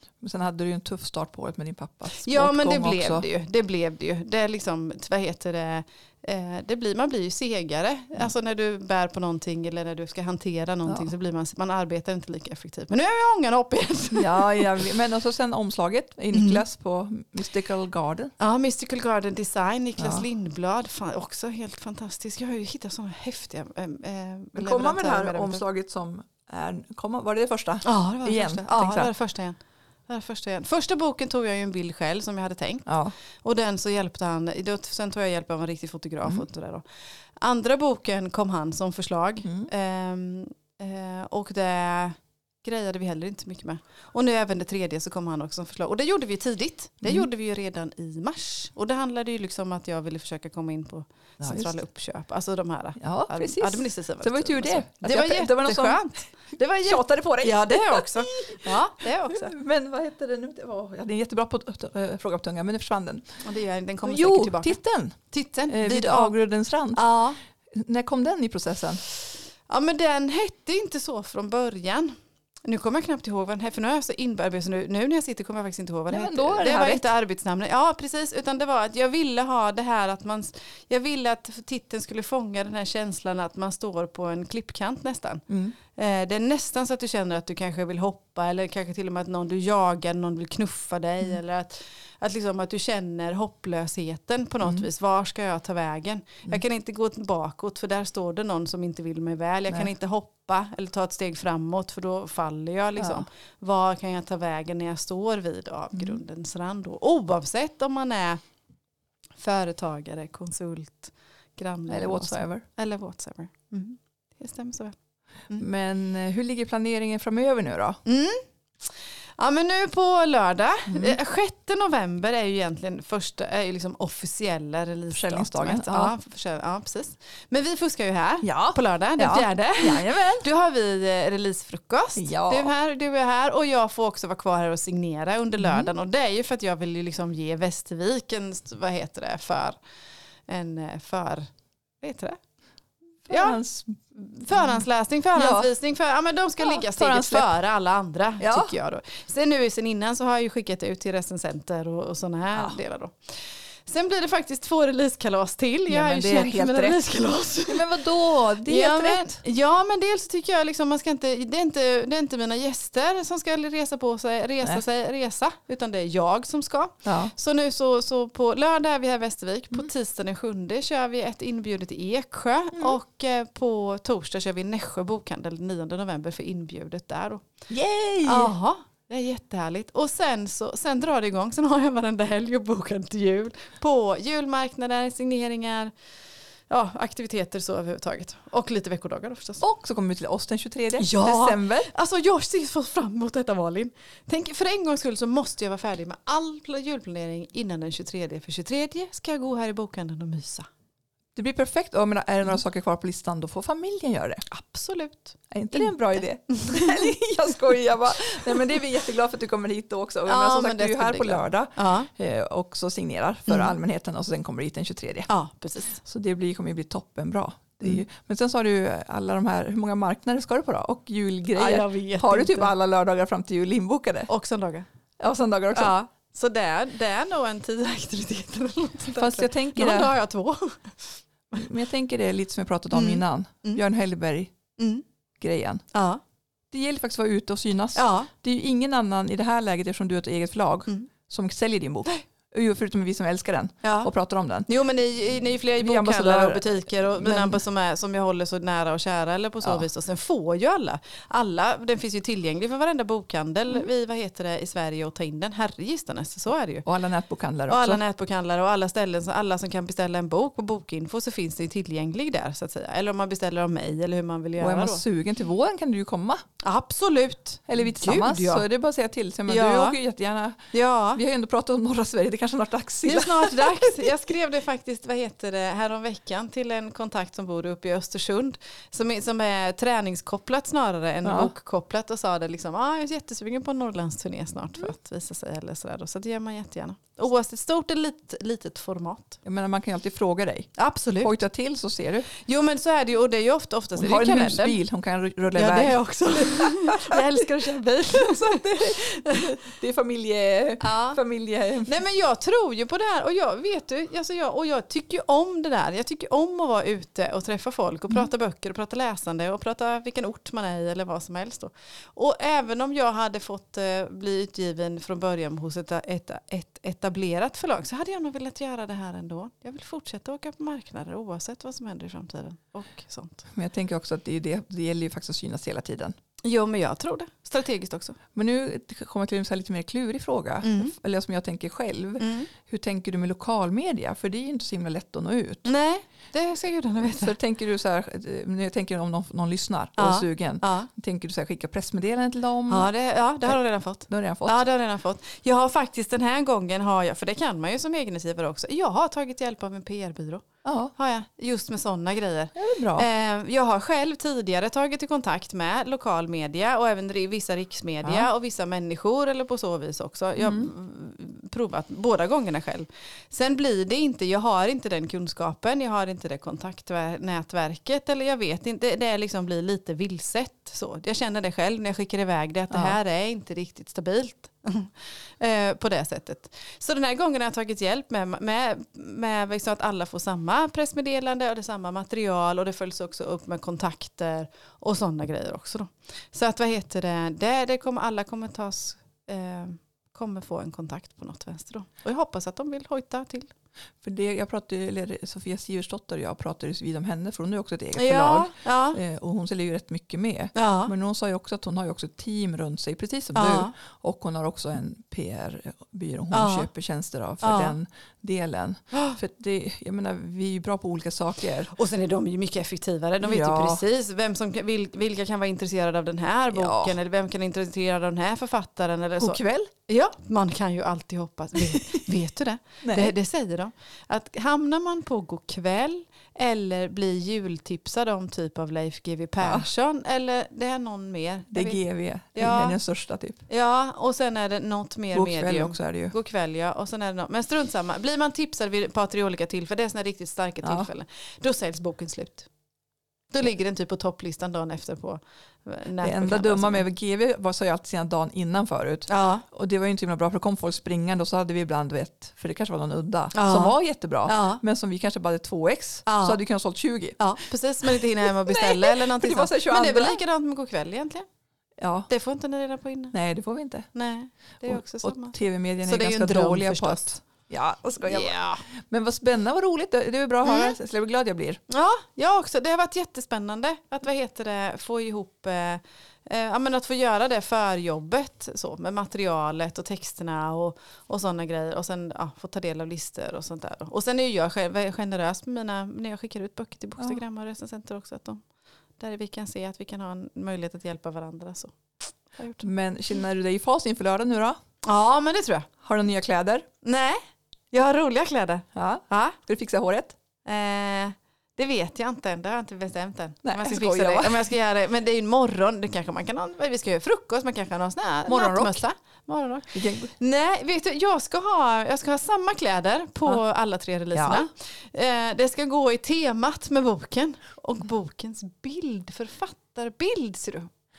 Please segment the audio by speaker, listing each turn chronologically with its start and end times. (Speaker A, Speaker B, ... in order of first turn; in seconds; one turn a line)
Speaker A: 0.2-3.2
Speaker B: 2.2-14.8
Speaker A: 14.1-18.3
Speaker B: 16.3-16.6
Speaker B: 18.4-25.6
Speaker A: 20.0-20.2
Speaker A: 24.6-29.1
Speaker B: 27.8-32.9
Speaker A: 32.9-33.1
Speaker B: 33.4-36.8
Speaker B: 37.4-59.5
Speaker A: 51.4-51.8
Speaker A: 53.0-56.0
Speaker A: 56.7-63.2
Speaker B: 63.4-64.8
Speaker A: 64.0-65.2
Speaker B: 65.3-66.3
Speaker A: 65.7-67.0
Speaker B: 66.9-67.4
Speaker A: 67.7-69.0
Speaker B: 69.7-108.4
Speaker A: 76.1-77.1
Speaker A: 85.5-85.7
Speaker A: 103.0-103.2
Speaker A: 105.9-106.2
Speaker B: 109.4-114.9
Speaker A: 111.9-112.6
Speaker A: 115.5-118.0
Speaker B: 118.0-118.4
Speaker B: 119.4-139.8
Speaker A: 120.9-121.2
Speaker A: 125.1-126.1
Speaker A: 128.4-130.4
Speaker A: 132.2-132.7
Speaker A: 135.6-135.9
Speaker B: 140.5-141.5
Speaker B: 142.0-142.4
Speaker A: 143.2-145.7
Speaker B: 143.3-143.6
Speaker B: 144.2-177.5
Speaker A: 146.6-147.5
Speaker A: 148.4-148.7
Speaker A: 155.9-157.0
Speaker A: 157.7-159.4
Speaker A: 167.0-167.3
Speaker A: 177.7-178.5
Speaker B: 178.2-185.9
Speaker B: 186.7-189.6
Speaker A: 189.6-191.9
Speaker B: 191.0-200.7
Speaker A: 201.3-204.4
Speaker B: 204.5-207.1
Speaker A: 205.5-215.3
Speaker B: 210.2-212.1
Speaker B: 213.5-213.7
Speaker B: 215.3-216.0
Speaker A: 216.0-224.3
Speaker B: 221.5-222.7
Speaker B: 224.3-224.8
Speaker A: 225.2-225.9
Speaker B: 225.7-231.7
Speaker A: 229.2-230.1
Speaker A: 231.5-234.5
Speaker B: 232.9-233.8
Speaker B: 234.8-235.0
Speaker A: 235.4-235.8
Speaker B: 235.9-236.2
Speaker A: 236.7-244.7
Speaker B: 237.9-238.3
Speaker B: 243.8-244.1
Speaker B: 244.7-256.9
Speaker A: 245.8-247.6
Speaker A: 256.9-258.0
Speaker B: 257.7-265.0
Speaker A: 264.6-266.4
Speaker B: 266.6-268.6
Speaker A: 267.7-270.6
Speaker B: 269.5-270.0
Speaker B: 270.7-271.2
Speaker A: 271.1-274.1
Speaker B: 273.0-289.4
Speaker A: 281.2-281.5
Speaker A: 289.4-292.3
Speaker B: 290.8-291.4
Speaker B: 292.3-294.8
Speaker A: 294.0-297.4
Speaker B: 295.5-299.6
Speaker A: 298.1-301.9
Speaker B: 300.8-301.2
Speaker B: 301.9-323.4
Speaker A: 323.5-326.1
Speaker B: 326.4-328.2
Speaker A: 328.3-335.7
Speaker B: 330.6-330.9
Speaker B: 332.2-332.5
Speaker B: 335.6-337.3
Speaker A: 337.0-342.9
Speaker B: 340.0-340.9
Speaker B: 342.7-393.5
Speaker A: 343.4-344.7
Speaker A: 350.6-350.9
Speaker A: 352.5-353.1
Speaker A: 360.4-360.7
Speaker A: 372.7-373.0
Speaker A: 394.0-411.7
Speaker B: 397.9-399.0
Speaker B: 400.5-400.9
Speaker B: 403.3-403.7
Speaker B: 406.3-406.7
Speaker B: 407.4-407.7
Speaker B: 408.9-409.2
Speaker B: 411.7-431.8
Speaker A: 413.2-413.8
Speaker A: 416.5-416.9
Speaker A: 419.2-419.7
Speaker A: 421.7-422.0
Speaker A: 422.8-423.1
Speaker A: 429.4-429.7
Speaker A: 431.5-433.4
Speaker B: 432.3-432.8
Speaker B: 433.5-442.5
Speaker A: 435.1-436.1
Speaker A: 440.6-440.9
Speaker B: 443.3-446.9
Speaker A: 446.0-457.3
Speaker B: 449.1-449.4
Speaker B: 453.3-454.6
Speaker B: 456.1-456.4
Speaker B: 457.2-461.3
Speaker A: 457.9-460.2
Speaker A: 461.8-462.1
Speaker B: 462.1-463.1
Speaker A: 463.1-463.9
Speaker B: 463.9-467.1
Speaker A: 464.7-471.6
Speaker B: 468.0-468.6
Speaker B: 470.4-470.8
Speaker B: 471.7-488.4
Speaker B: 489.0-492.7
Speaker A: 492.6-494.6
Speaker B: 494.8-495.7
Speaker A: 495.8-496.7
Speaker B: 496.8-497.2
Speaker B: 497.7-499.4
Speaker A: 498.7-500.1
Speaker B: 500.4-520.7
Speaker A: 503.4-504.5
Speaker A: 508.3-508.8
Speaker A: 509.7-510.1
Speaker A: 514.1-514.4